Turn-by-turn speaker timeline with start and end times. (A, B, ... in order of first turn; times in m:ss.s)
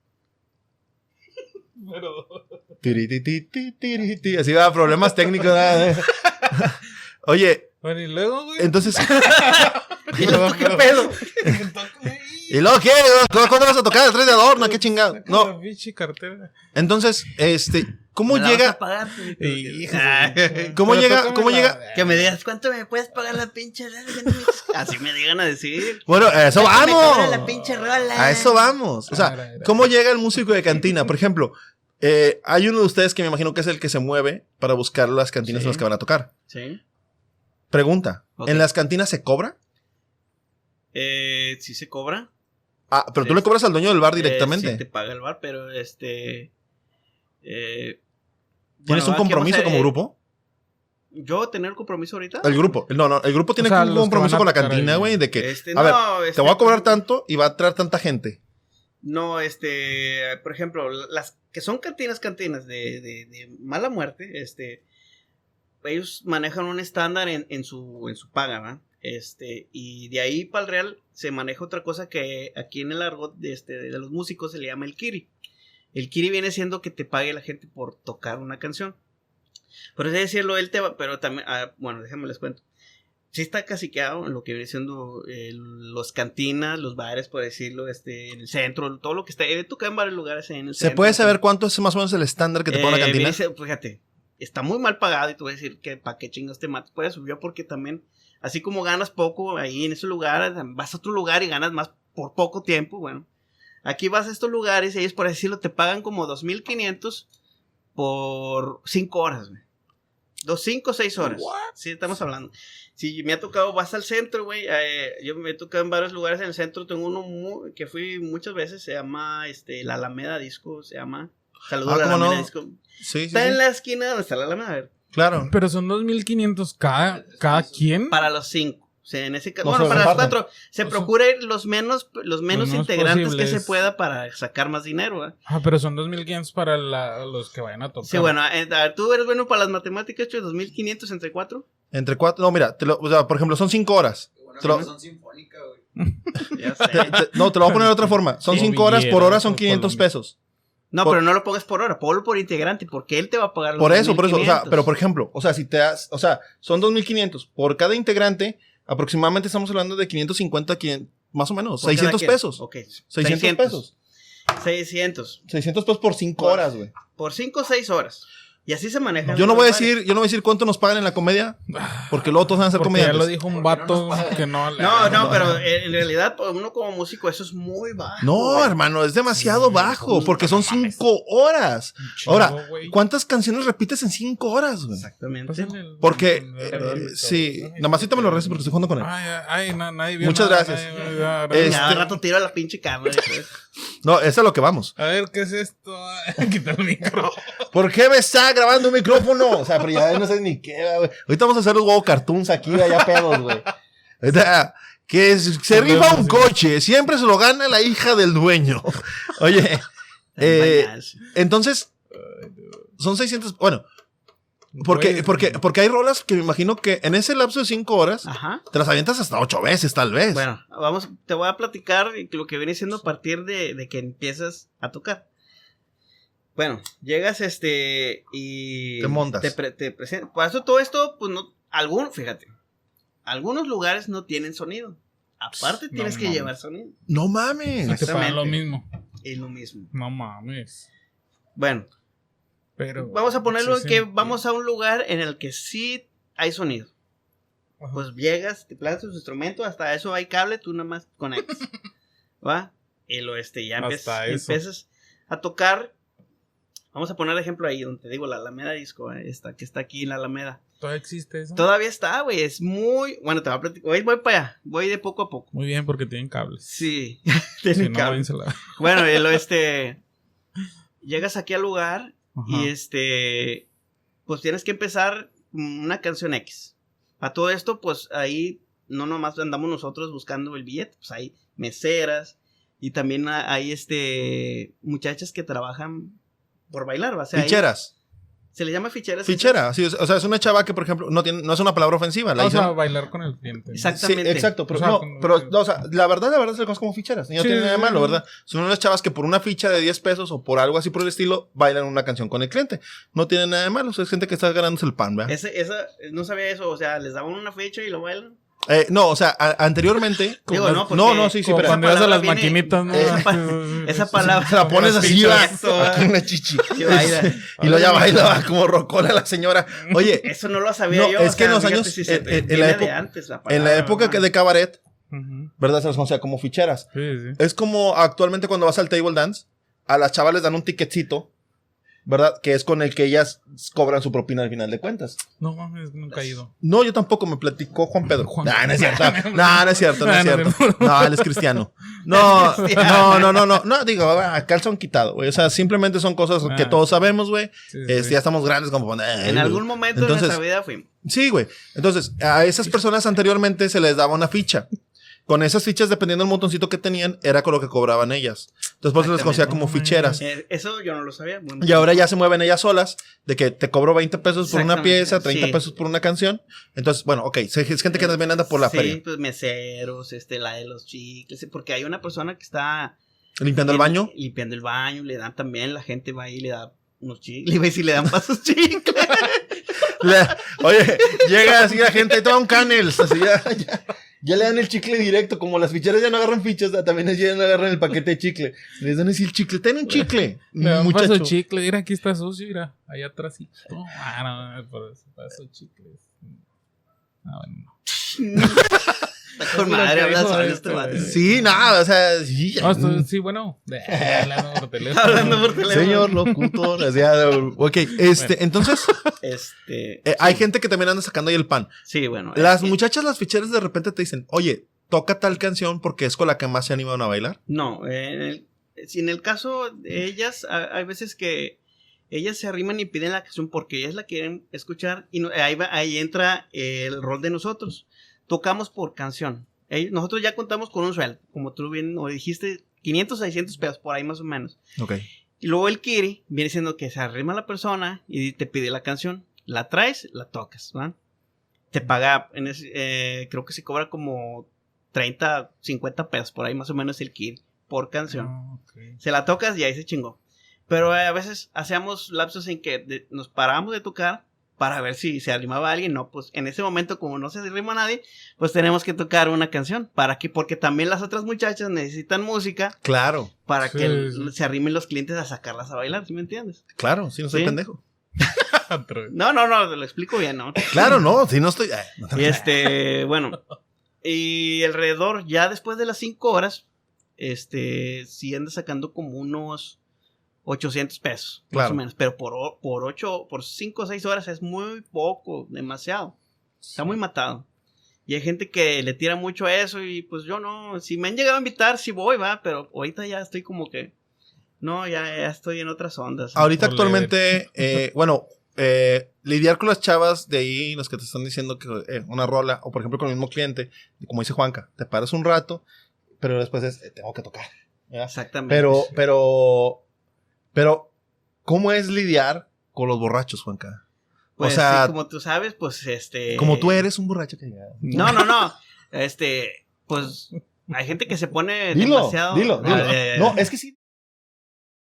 0:01.8-0:02.6 A
0:02.8-0:07.7 B
0:05.4-0:06.6 A
0:07.8-0:12.6 A
0:08.6-0:09.1 B
0:09.2-0:11.2 C
0:10.1-0:10.5 B
0:12.5-0:15.5 B
0:15.1-0:16.5 A
0:16.7-0:18.8 B
0:18.3-0:20.8 C
0:19.4-0:22.3 A
0:20.7-0:21.8 B
0:21.9-0:28.7 C
0:26.0-0:27.4 B
0:27.2-0:27.8 A
0:28.2-0:36.3 B
0:29.1-0:29.9 A
0:35.4-0:35.8 C
0:36.5-0:36.8 C
0:37.7-0:39.5 B
0:38.4-0:38.7 C
0:40.9-0:42.3 C
0:42.9-0:44.8 B
0:43.2-0:43.4 C
0:44.2-0:46.5 C
0:47.4-0:48.0 C
0:48.8-0:49.9 C
0:48.9-0:50.1 B
0:51.1-0:52.6 C
0:52.4-0:58.4 B
0:53.6-0:55.2 A
0:55.4-0:56.9 C
0:59.0-1:04.8 C
1:05.8-1:15.3 C
1:15.9-1:19.0 C
1:20.0-1:22.6 C
1:23.3-1:31.4 C
1:30.8-1:33.4 B
1:32.7-1:43.2 C
1:43.8-1:47.2 C
1:48.0-1:49.6 C
1:50.4-2:02.8 C
2:01.8-2:03.6 B
2:03.3-2:04.9 C
2:05.1-2:05.5 B
2:05.4-2:08.2 A
2:07.1-2:07.9 D
2:08.1-2:15.4 C
2:09.6-2:10.4 B
2:10.8-2:11.1 A
2:12.5-2:13.8 A
2:15.5-2:18.3 A
2:18.0-2:21.6 C
2:21.9-2:24.9 B
2:24.4-2:25.8 D
2:26.0-2:30.0 A
2:26.5-2:27.2 C
2:26.9-2:30.3 B
2:30.9-2:34.8 C
2:33.8-2:43.9 B
2:41.8-2:43.8 C
2:44.6-2:45.4 C
2:45.5-2:46.9 B
2:46.4-2:49.9 C
2:49.3-2:53.3 B
2:51.7-2:55.6 A
2:53.5-2:55.2 D
2:54.8-2:58.8 C
2:55.0-2:55.6 B
2:58.2-3:05.0 B
2:59.4-3:00.0 A
2:59.8-3:01.0 C
3:02.0-3:03.0 A
3:04.9-3:05.8 C
3:05.5-3:12.1 A
3:06.0-3:09.1 B
3:06.7-3:07.0 C
3:10.2-3:10.8 B
3:11.5-3:12.1 B
3:11.5-3:13.5 C
3:14.0-3:14.9 B
3:15.0-3:17.7 A
3:17.7-3:23.6 B
3:24.2-3:29.8 B
3:25.7-3:26.5 A
3:30.4-3:31.2 C
3:30.4-3:31.9 B
3:32.1-3:32.9 A
3:33.0-3:33.8 B
3:34.7-3:35.6 A
3:34.8-3:40.4 B
3:38.2-3:38.6 C
3:40.3-3:45.2 C
3:46.6-3:52.5 C
3:49.0-3:49.5 B
3:53.2-3:57.0 C
3:55.9-3:56.5 A
3:57.1-3:58.2 B
3:57.8-3:58.6 C
3:57.8-3:58.8 A
3:59.2-3:59.9 C
3:59.9-4:00.8 A
4:01.6-4:01.9 C
4:02.8-4:04.4 A
4:03.0-4:06.9 C
4:07.9-4:11.6 C
4:12.4-4:15.9 C
4:13.8-4:14.6 A
4:16.9-4:20.6 C
4:20.8-4:21.6 A
4:21.6-4:25.5 C
4:25.5-4:26.7 A
4:26.7-4:30.0 C
4:27.7-4:28.8 A
4:31.0-4:33.6 C
4:32.3-4:32.7 A
4:34.3-4:46.2 C
4:46.7-4:47.6 C
4:47.3-4:47.9 B
4:48.5-4:49.6 C
4:49.2-4:52.7 B
4:52.4-4:53.9 A
4:53.7-4:54.5 C
4:53.9-5:05.3 B
4:54.7-4:55.5 A
4:57.4-4:58.2 A
5:05.3-5:08.4 C
5:08.7-5:11.8 B
5:10.4-5:16.0 A
5:10.5-5:16.1 C
5:12.9-5:13.2 B
5:14.2-5:20.3 B
5:16.7-5:18.0 C
5:17.6-5:18.3 A
5:19.8-5:20.2 A
5:20.2-5:24.2 C
5:20.9-5:22.9 B
5:23.5-5:24.8 B
5:25.1-5:25.5 A
5:25.6-5:31.3 B
5:26.9-5:27.4 A
5:32.0-5:35.2 B
5:35.4-5:36.5 A
5:36.6-5:50.4 B
5:38.2-5:41.6 A
5:42.1-5:43.6 C
5:42.2-5:43.1 A
5:46.4-5:46.8 A
5:47.7-5:48.2 A
5:49.2-5:50.9 C
5:51.0-5:54.6 B
5:55.3-6:00.2 B
5:59.0-5:59.5 C
5:59.4-6:00.2 A
6:00.2-6:02.0 C
6:01.6-6:09.0 B
6:04.4-6:05.6 C
6:07.9-6:13.0 C
6:13.4-6:14.1 B
6:13.7-6:19.6 C
6:20.0-6:31.3 B
6:21.1-6:21.9 C
6:30.6-6:36.2 A
6:37.2-6:37.8 A
6:37.9-6:38.7 C
6:39.4-6:41.2 C
6:39.4-6:41.6 A
6:41.0-6:43.1 B
6:42.6-6:46.5 A
6:43.9-6:44.6 B
6:44.8-6:46.3 C
6:45.7-6:48.9 B
6:48.1-6:49.1 A
6:49.2-6:50.4 C
6:50.0-6:51.7 B
6:51.9-6:52.8 C
6:52.3-6:57.4 B
6:57.5-7:01.6 C
7:02.1-7:14.6 C
7:14.8-7:15.0 B
7:15.4-7:21.0 C
7:21.7-7:28.3 C
7:28.1-7:29.0 A
7:29.0-7:42.8 C
7:42.8-7:43.3 B
7:43.4-7:46.6 C
7:43.7-7:44.3 A
7:46.8-7:47.8 B
7:47.3-7:47.6 C
7:48.4-7:49.1 A
7:49.1-7:51.0 C
7:50.7-7:52.5 B
7:52.1-7:53.4 C
7:54.0-7:56.6 C
7:57.2-7:59.8 C
8:00.4-8:06.2 C
8:01.5-8:01.8 B
8:06.7-8:07.4 C
8:08.1-8:13.9 C
8:14.6-8:16.4 C
8:16.4-8:25.6 B
8:16.4-8:17.4 A
8:26.2-8:29.8 B
8:28.1-8:28.9 C
8:30.5-8:30.9 B
8:31.4-8:33.8 B
8:34.4-8:36.8 C
8:34.4-8:34.9 B
8:36.3-8:38.2 B
8:37.8-8:38.3 A
8:37.9-8:43.4 C
8:41.7-8:43.8 B
8:42.6-8:42.9 A